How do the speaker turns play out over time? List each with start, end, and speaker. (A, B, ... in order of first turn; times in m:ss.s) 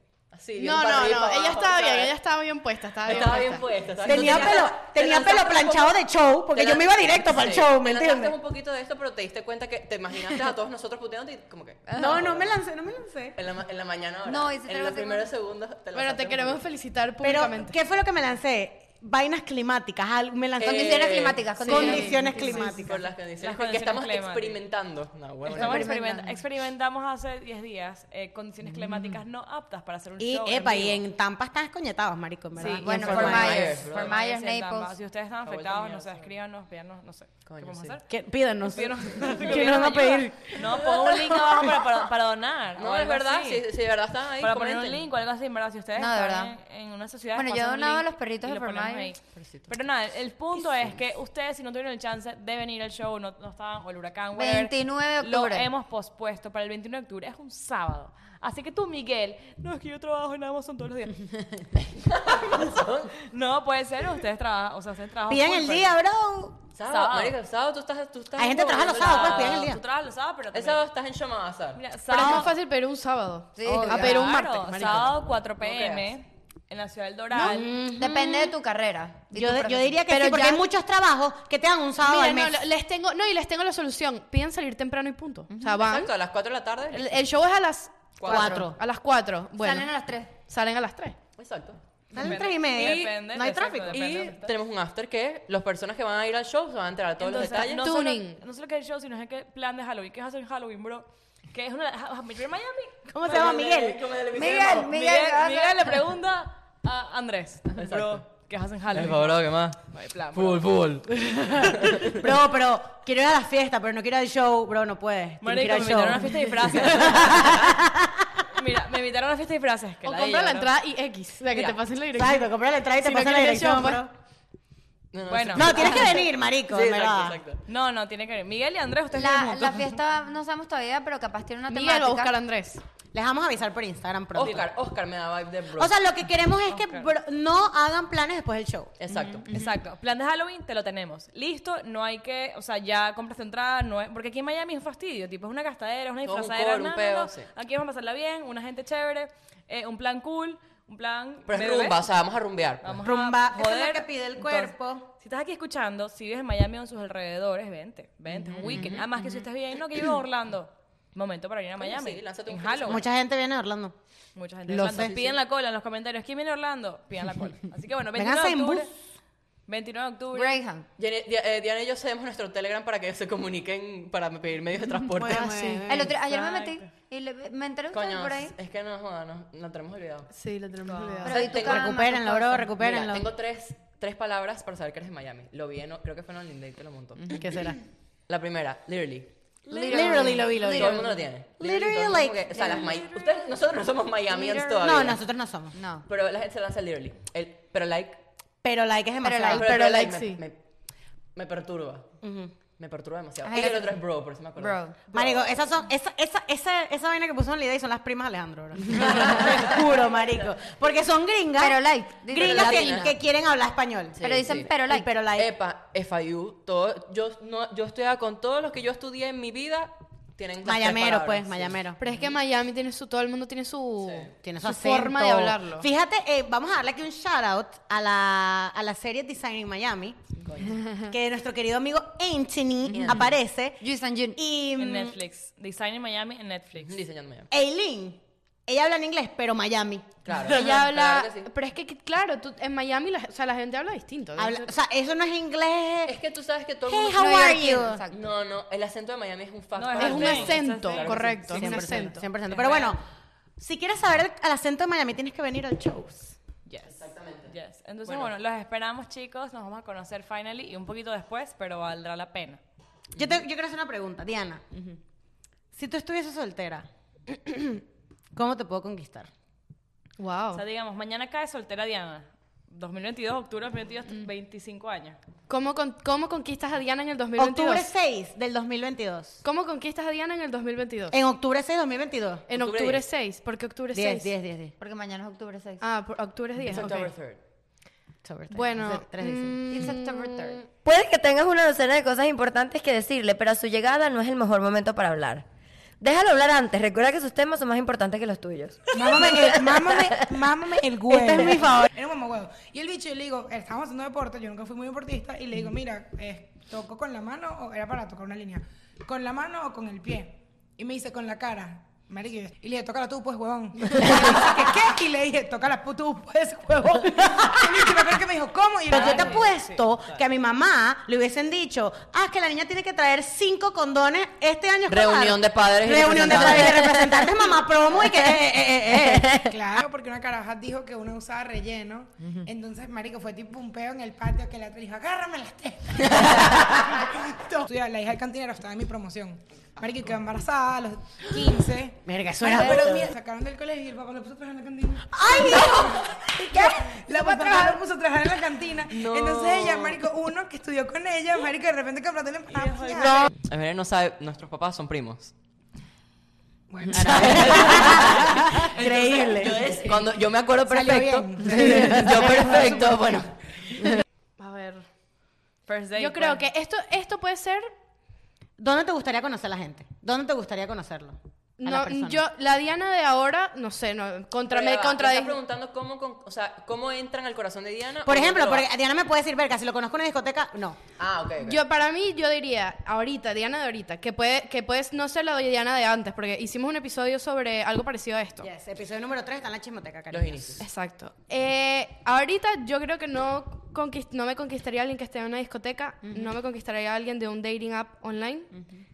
0:00.3-0:02.1 A
0:00.6-0:04.1 B
0:03.0-0:06.0 A
0:04.0-0:08.4 C
0:06.5-0:12.6 A
0:11.9-0:12.2 D
0:12.0-0:13.4 C
0:13.4-0:16.6 A
0:14.2-0:15.3 D
0:15.9-0:17.7 B
0:17.2-0:23.0 C
0:20.6-0:21.4 A
0:20.6-0:22.5 D
0:21.6-0:22.9 B
0:22.5-0:25.9 A
0:23.4-0:24.6 E
0:25.5-0:31.0 E
0:25.5-0:26.4 D
0:30.2-0:33.7 C
0:32.5-0:38.0 E
0:32.7-0:34.9 D
0:32.9-0:34.2 A
0:35.4-0:36.3 A
0:37.4-0:38.0 A
0:38.1-0:41.8 C
0:38.6-0:43.6 E
0:40.6-0:41.1 A
0:42.8-0:45.1 A
0:44.4-1:01.4 E
0:46.0-0:46.5 D
0:47.3-0:49.1 D
0:49.4-0:49.7 A
0:54.3-0:55.7 D
1:01.8-1:03.1 A
1:03.1-1:05.9 E
1:05.3-1:06.6 C
1:06.7-1:09.8 A
1:06.9-1:07.4 E
1:08.4-1:09.8 C
1:08.9-1:10.8 E
1:10.5-1:11.8 A
1:11.7-1:12.5 E
1:12.1-1:15.2 B
1:13.6-1:14.2 D
1:13.7-1:13.9 C
1:13.7-1:17.8 E
1:14.8-1:16.1 A
1:17.3-1:18.5 C
1:18.0-1:20.0 D
1:19.3-1:22.6 C
1:20.1-1:20.6 B
1:22.0-1:26.1 B
1:25.5-1:25.8 D
1:25.8-1:27.2 A
1:26.9-1:29.9 B
1:28.2-1:28.7 A
1:28.2-1:28.8 C
1:29.6-1:30.3 D
1:30.5-1:31.2 B
1:31.4-1:31.8 A
1:32.1-1:34.0 C
1:32.2-1:34.5 E
1:32.7-1:33.1 A
1:33.9-1:37.9 A
1:37.2-1:43.6 E
1:37.5-1:38.4 B
1:43.1-1:44.0 C
1:43.2-1:44.9 A
1:44.3-1:46.0 D
1:44.4-1:50.8 E
1:47.7-1:48.2 A
1:48.9-1:52.3 A
1:52.0-1:58.4 C
1:55.4-1:57.8 E
1:57.0-1:57.5 A
1:58.5-2:00.7 E
2:00.0-2:04.0 B
2:01.5-2:01.8 A
2:02.1-2:04.1 C
2:05.1-2:07.6 A
2:05.3-2:06.1 E
2:05.5-2:07.4 C
2:07.7-2:09.9 E
2:09.1-2:12.3 D
2:11.7-2:12.8 B
2:13.1-2:14.7 C
2:14.3-2:15.9 A
2:15.8-2:18.9 C
2:16.7-2:17.1 E
2:19.0-2:19.5 A
2:19.4-2:32.0 E
2:26.2-2:27.5 A
2:31.5-2:33.0 A
2:32.8-2:43.0 E
2:33.0-2:35.1 C
2:38.6-2:39.0 C
2:38.6-2:39.0 A
2:41.8-2:43.0 A
2:42.8-2:43.9 C
2:44.3-2:48.9 E
2:44.6-2:45.1 C
2:44.9-2:45.4 A
2:48.1-2:48.9 C
2:49.7-2:50.6 E
2:50.3-2:50.8 D
2:51.0-2:55.6 A
2:55.1-2:56.1 C
2:55.3-2:55.8 B
2:55.9-2:58.5 D
2:56.2-2:56.9 E
2:57.9-3:00.3 A
3:00.3-3:01.4 B
3:00.8-3:01.3 E
3:01.2-3:02.8 D
3:01.3-3:01.9 A
3:01.3-3:03.3 C
3:02.8-3:07.4 A
3:07.3-3:07.8 C
3:08.3-3:09.3 A
3:09.7-3:11.0 D
3:09.9-3:12.9 C
3:10.0-3:15.2 A
3:14.3-3:14.8 D
3:14.8-3:15.7 C
3:15.7-3:16.0 D
3:16.1-3:18.2 A
3:18.6-3:19.7 C
3:19.2-3:19.6 D
3:19.5-3:20.4 B
3:19.5-3:20.6 A
3:21.3-3:22.1 A
3:22.2-3:22.5 C
3:22.8-3:25.6 A
3:23.4-3:23.9 D
3:24.6-3:25.0 D
3:25.1-3:34.2 C
3:28.9-3:29.8 A
3:31.6-3:33.1 D
3:32.3-3:33.1 A
3:34.2-3:34.7 A
3:34.2-3:35.1 D
3:34.8-3:35.5 C
3:35.4-3:41.8 A
3:40.6-3:42.0 C
3:42.0-3:45.9 B
3:44.0-3:44.3 A
3:44.4-3:50.2 C
3:50.4-3:50.8 A
3:50.7-3:51.1 D
3:51.1-3:53.8 C
3:52.9-3:53.3 A
3:53.8-3:54.4 D
3:54.4-3:55.2 C
3:54.8-3:57.0 E
3:56.8-3:57.5 A
3:57.5-4:00.2 C
4:00.2-4:01.5 A
4:00.4-4:04.7 B
4:04.4-4:06.2 C
4:06.0-4:07.5 A
4:06.8-4:08.0 C
4:07.1-4:08.3 D
4:08.1-4:11.8 A
4:09.8-4:11.7 E
4:10.0-4:12.2 B
4:11.5-4:13.0 C
4:12.5-4:13.0 E
4:13.6-4:16.4 C
4:16.6-4:22.6 E
4:16.8-4:18.3 A
4:23.2-4:24.9 C
4:25.7-4:27.8 C
4:28.3-4:29.3 C
4:30.2-4:30.6 B
4:30.5-4:35.2 E
4:35.5-4:37.9 B
4:37.4-4:39.4 C
4:39.4-4:41.2 B
4:41.1-4:42.5 C
4:42.5-4:44.3 B
4:42.5-4:43.0 A
4:43.9-4:44.7 C
4:44.8-4:45.8 D
4:45.8-4:47.1 B
4:46.6-4:47.4 A
4:48.2-4:49.9 C
4:48.5-4:50.5 B
4:49.7-4:55.4 D
4:56.0-4:59.4 D
4:58.9-5:19.4 F
4:59.1-4:59.4 C
5:01.1-5:01.9 C
5:17.2-5:17.8 C
5:18.9-5:29.5 C
5:18.9-5:19.9 E
5:24.9-5:27.2 A
5:29.3-5:53.2 F
5:42.0-5:43.1 C
5:45.1-5:46.0 C
5:46.5-5:47.8 D
5:48.9-5:50.0 A
5:52.5-5:53.3 E
5:53.4-5:55.3 A
5:56.7-5:57.9 F
5:56.9-5:59.6 C
5:57.0-6:03.9 A
6:00.7-6:02.9 C
6:01.4-6:02.6 F
6:04.4-6:04.8 B
6:05.7-6:06.4 E
6:06.0-6:07.7 B
6:08.6-6:12.2 C
6:11.6-6:15.4 B
6:14.5-6:18.7 A
6:18.0-6:20.8 C
6:21.0-6:21.6 A
6:21.4-6:28.5 B
6:28.4-6:30.6 C
6:30.1-6:30.6 A
6:30.6-6:38.5 B